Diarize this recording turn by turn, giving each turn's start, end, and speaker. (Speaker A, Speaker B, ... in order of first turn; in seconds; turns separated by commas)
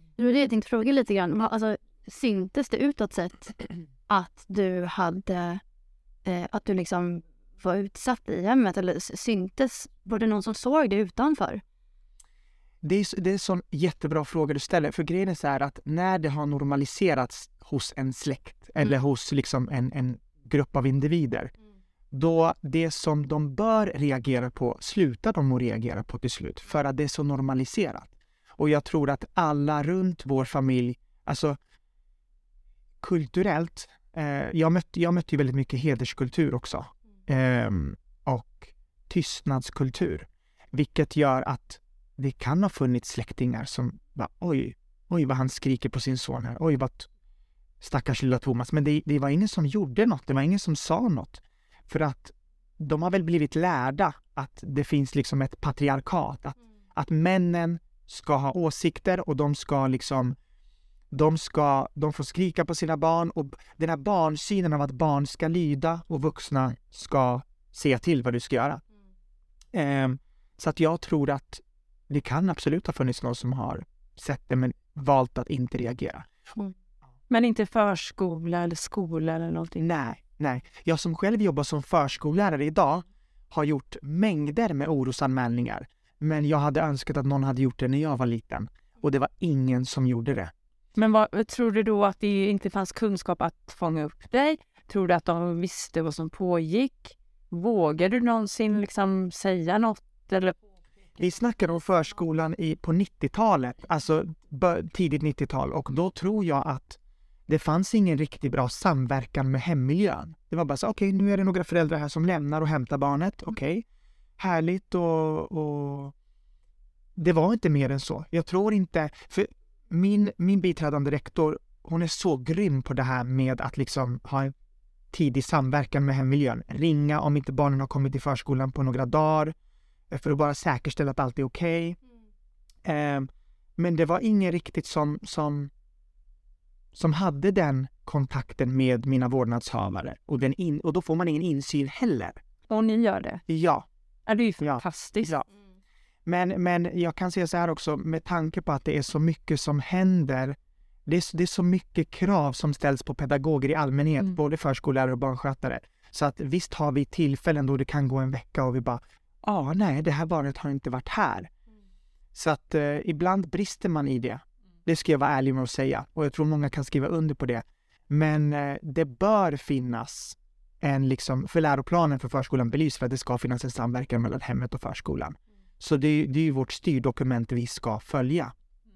Speaker A: 0.2-5.6, Speaker A: 6.2-11.6, Speaker B: 12.8-21.5, Speaker B: 22.1-31.6, Speaker B: 33.0-47.1, Speaker B: 47.8-60.4, Speaker B: 61.1-68.8, Speaker B: 69.7-76.3, Speaker C: 77.3-79.9, Speaker B: 79.8-90.5, Speaker C: 91.0-100.6, Speaker B: 101.2-113.8, Speaker B: 114.4-116.1, Speaker B: 117.2-124.5, Speaker B: 125.1-129.6, Speaker B: 130.1-132.0, Speaker B: 132.8-135.7, Speaker B: 136.9-142.4, Speaker C: 142.7-143.4, Speaker B: 143.5-143.9, Speaker C: 144.3-145.3, Speaker B: 144.6-145.5, Speaker B: 146.3-150.6, Speaker B: 151.1-161.5, Speaker B: 162.3-178.5